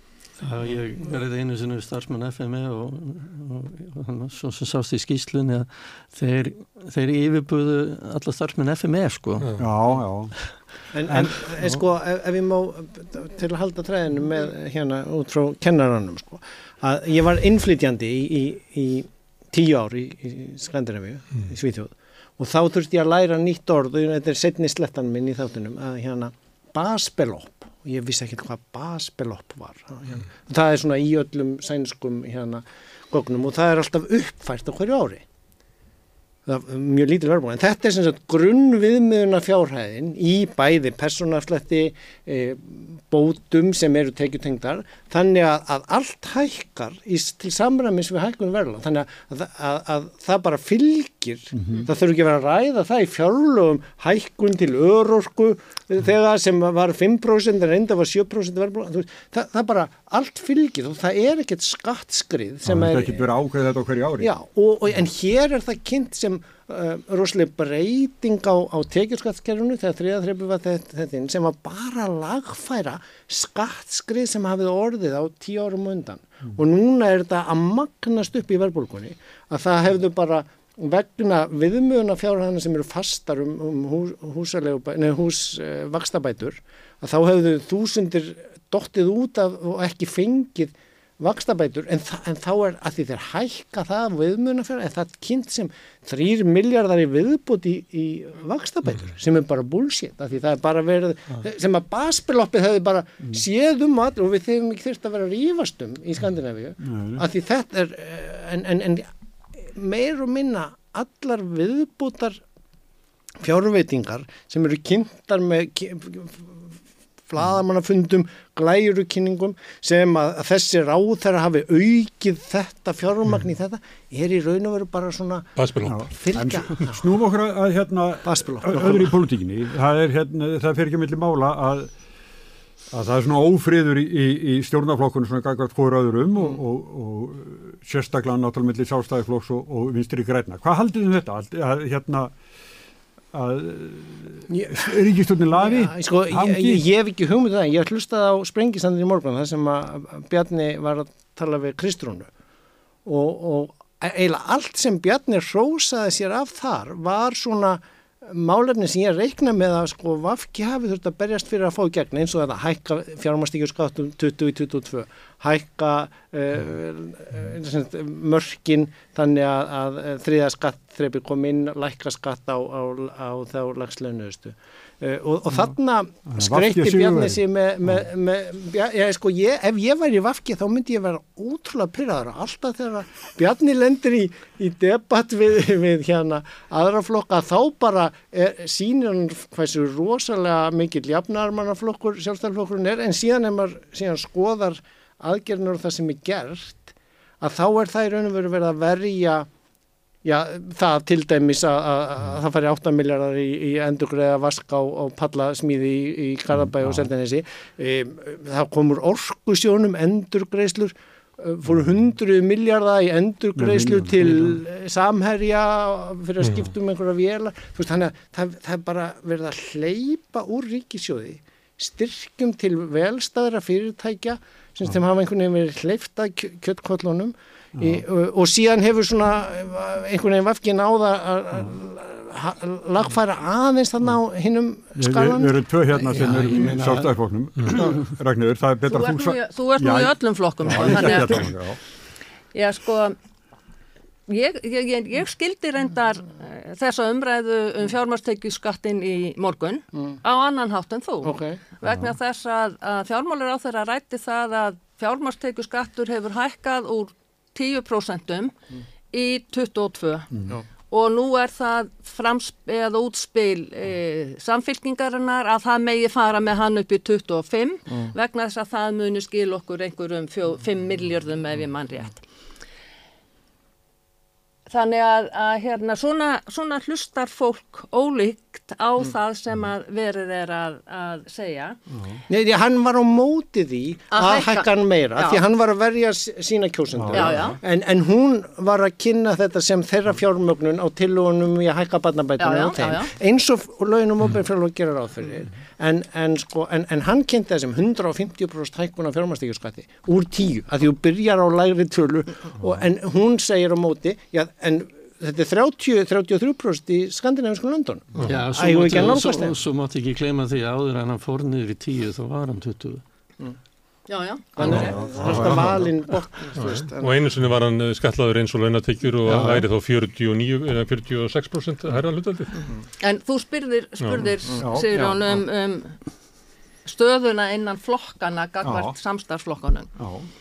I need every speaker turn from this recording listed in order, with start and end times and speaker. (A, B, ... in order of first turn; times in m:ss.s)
0:00.4-0:09.5 A
0:09.6-0:10.3 B
0:10.9-0:35.2 C
0:11.0-0:11.8 B
0:36.4-1:03.3 C
0:51.5-0:51.9 B
1:02.6-1:04.3 B
1:04.2-1:52.4 C
1:46.8-1:47.2 B
1:53.4-1:56.6 C
1:57.3-2:05.5 C
2:05.6-2:06.1 D
2:05.8-2:11.9 B
2:06.0-2:07.0 C
2:08.2-2:09.2 C
2:12.9-2:22.3 B
2:23.3-2:26.8 B
2:24.5-2:25.0 C
2:25.5-2:32.3 C
2:33.0-3:19.5 C
2:56.3-2:58.0 B
3:20.2-3:55.6 C
3:26.5-3:27.1 B
3:33.6-3:34.6 B
3:36.4-3:36.7 D
3:47.8-3:48.0 B
3:55.0-4:01.8 B
3:56.1-3:57.0 A
3:58.9-4:01.5 E
4:02.5-4:03.1 E
4:04.3-4:18.5 E
4:11.2-4:11.6 C
4:11.8-4:12.1 B
4:19.1-4:20.3 E
4:20.9-4:32.2 E
4:34.7-4:41.8 E
4:41.9-4:42.2 B
4:42.3-5:09.5 C
4:44.1-4:45.4 E
4:46.9-4:47.6 B
4:47.1-4:47.6 E
4:52.4-4:53.1 E
5:08.2-5:13.0 A
5:14.1-5:14.9 E
5:14.6-5:17.1 C
5:14.6-5:15.9 B
5:15.2-5:15.7 D
5:16.5-5:22.6 D
5:23.0-5:26.0 E
5:24.0-5:24.2 D
5:24.6-5:25.4 B
5:26.8-5:29.9 E
5:28.6-5:29.0 B
5:30.0-5:30.3 B